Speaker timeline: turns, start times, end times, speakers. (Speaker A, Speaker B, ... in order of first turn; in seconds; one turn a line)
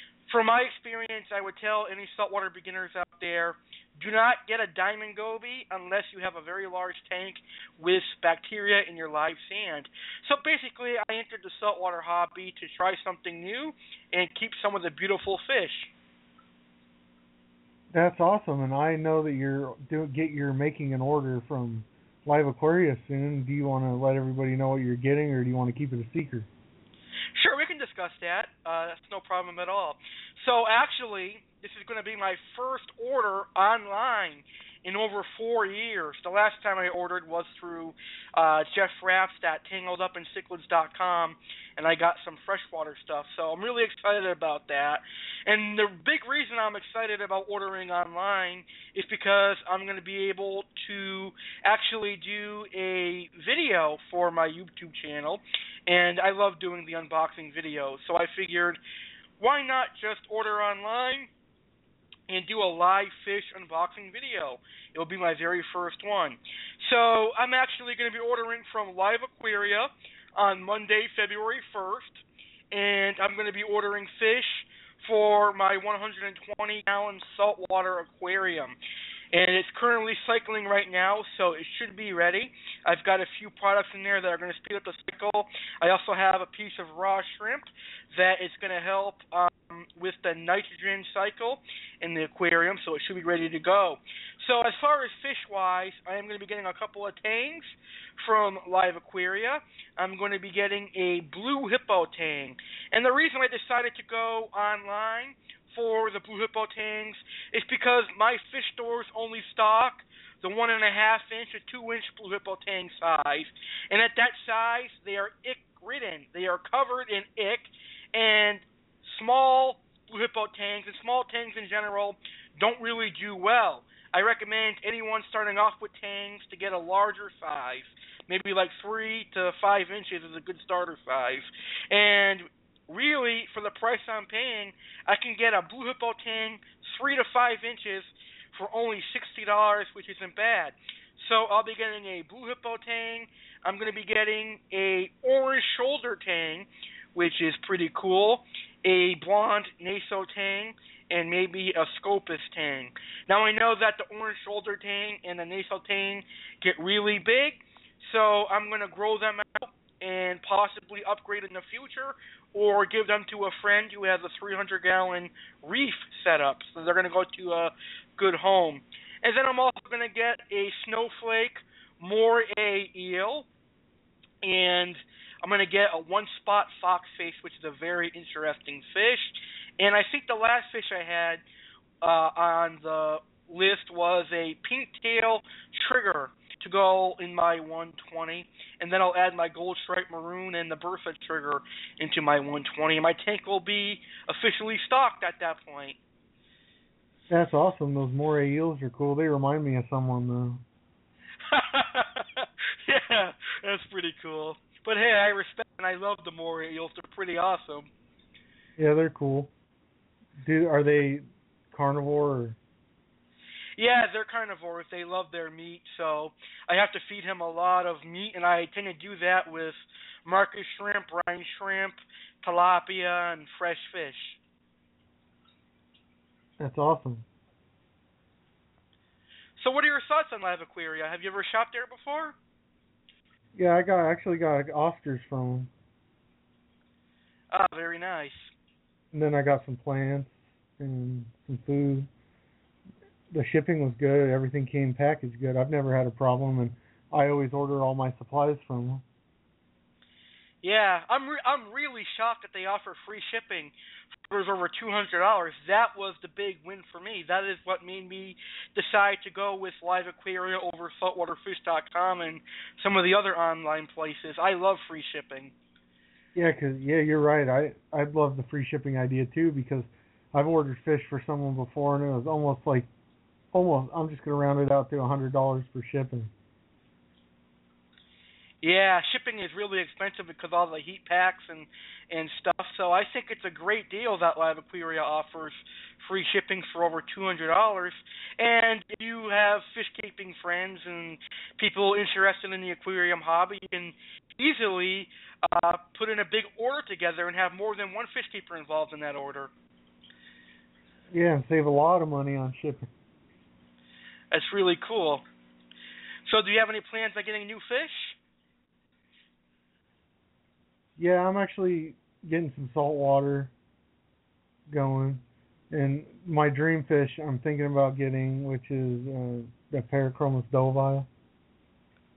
Speaker A: 0.3-15.9
Speaker B: 17.9-26.5
Speaker A: 27.4-58.8
Speaker A: 59.4-61.3
Speaker A: 62.3-78.8
Speaker A: 79.3-173.5
Speaker A: 174.4-181.4
Speaker A: 182.0-196.0
Speaker B: 197.3-200.6
Speaker A: 201.5-207.9
Speaker B: 208.8-209.5
Speaker B: 210.4-212.6
Speaker A: 213.8-224.4
Speaker B: 226.6-227.2
Speaker A: 229.6-232.3
Speaker B: 233.5-235.7
Speaker A: 237.5-238.5
Speaker B: 239.1-242.1
Speaker B: 243.3-249.0
Speaker A: 250.6-253.7
Speaker A: 254.3-265.5
Speaker B: 266.3-272.9
Speaker B: 273.5-276.3
Speaker A: 278.6-299.5
Speaker B: 301.1-302.9
Speaker A: 304.3-305.2
Speaker A: 306.2-308.2
Speaker B: 311.0-313.5
Speaker B: 314.7-321.1